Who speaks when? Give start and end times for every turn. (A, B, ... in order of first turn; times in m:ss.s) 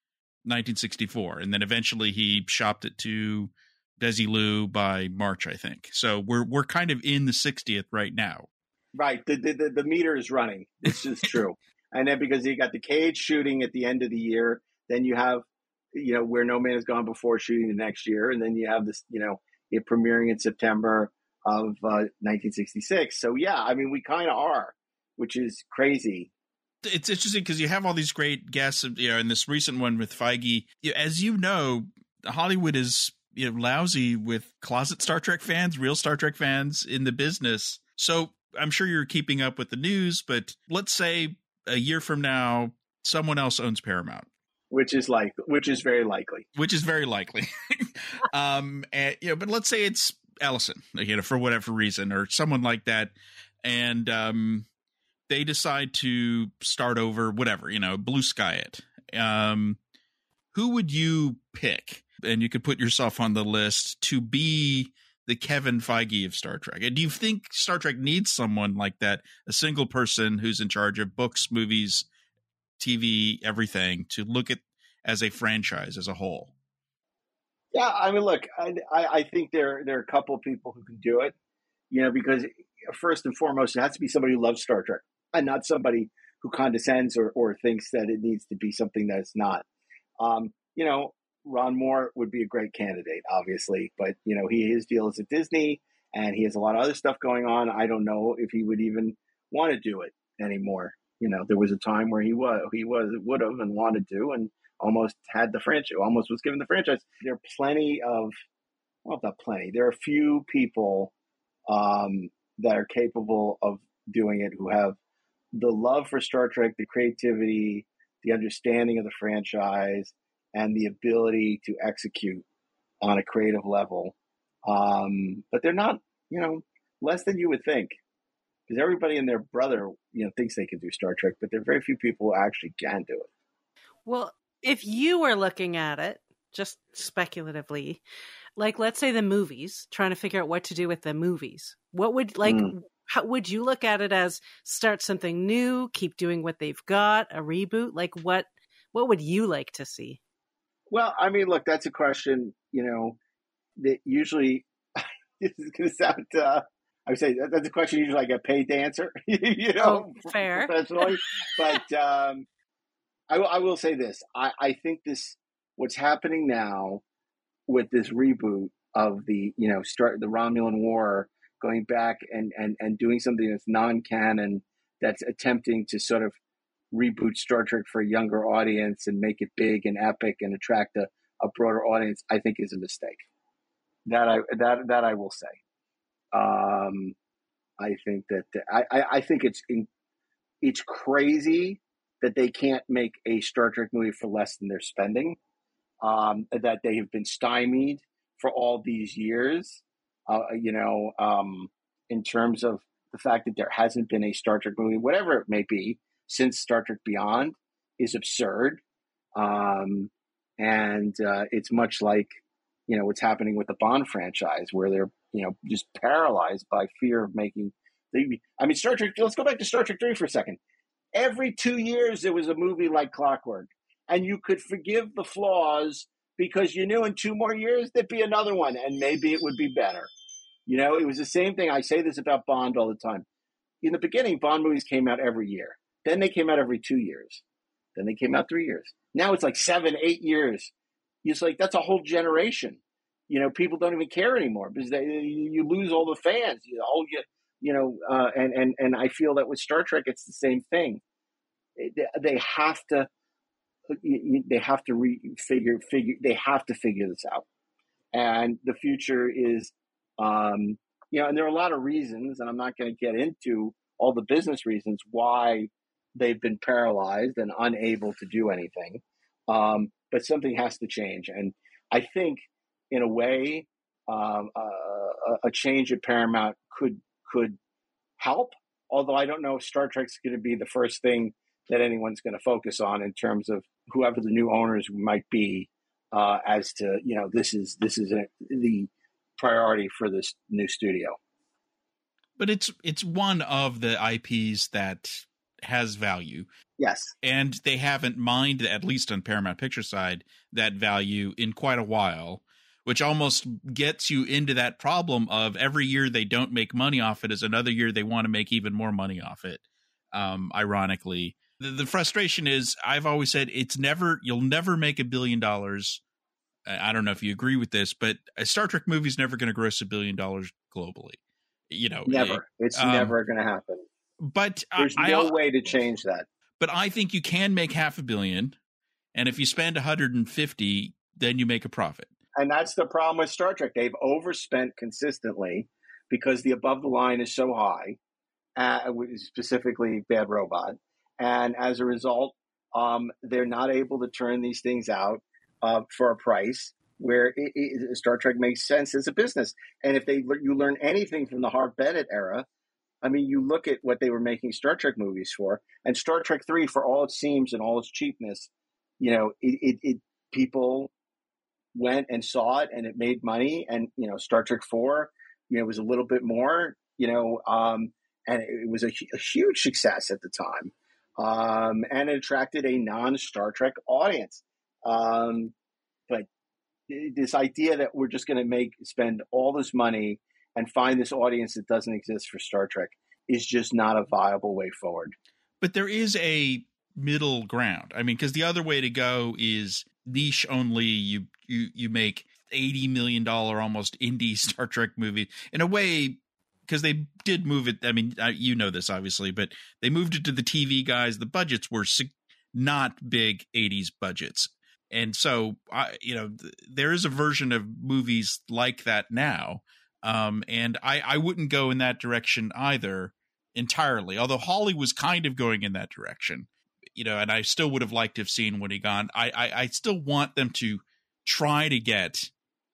0:00.4-0:08.5 A
0:09.0-0:26.3 B
0:26.8-0:44.3 A
0:44.7-0:46.5 B
0:46.6-0:54.7 A
0:55.3-0:59.8 A
1:00.5-1:12.1 A
1:12.8-1:16.5 A
1:17.7-1:21.3 B
1:21.9-1:29.6 B
1:30.2-1:48.3 B
1:49.0-1:51.1 B
1:51.7-1:55.0 B
1:55.5-2:02.4 B
2:03.0-2:04.1 B
2:04.6-2:08.0 B
2:08.7-2:13.3 B
2:14.1-2:18.0 C
2:18.6-2:30.2 C
2:22.5-2:22.7 B
2:30.9-2:33.2 B
2:33.8-2:42.4 B
2:39.8-2:41.2 C
2:43.3-2:47.0 B
2:47.7-2:56.4 B
2:56.9-3:03.2 B
3:04.1-3:05.6 B
3:06.3-3:07.2 B
3:07.8-3:09.9 B
3:10.6-3:15.4 B
3:16.0-3:28.8 B
3:29.4-3:40.6 B
3:41.1-3:50.1 B
3:50.7-3:53.2 B
3:53.8-3:57.4 B
3:58.0-4:00.7 B
4:01.2-4:11.0 B
4:11.8-4:13.1 B
4:13.9-4:17.4 B
4:18.1-4:37.6 B
4:38.2-4:51.2 B
4:52.4-4:56.5 A
4:56.8-4:57.1 B
4:57.2-5:16.0 A
5:16.7-5:23.2 A
5:22.1-5:23.8 B
5:24.2-5:25.4 A
5:24.8-5:26.3 B
5:26.6-5:28.6 A
5:29.2-5:32.1 A
5:32.4-5:38.0 B
5:38.6-5:52.5 B
5:53.0-6:00.9 B
6:01.7-6:15.5 B
6:16.9-6:25.2 B
6:25.6-7:02.3 A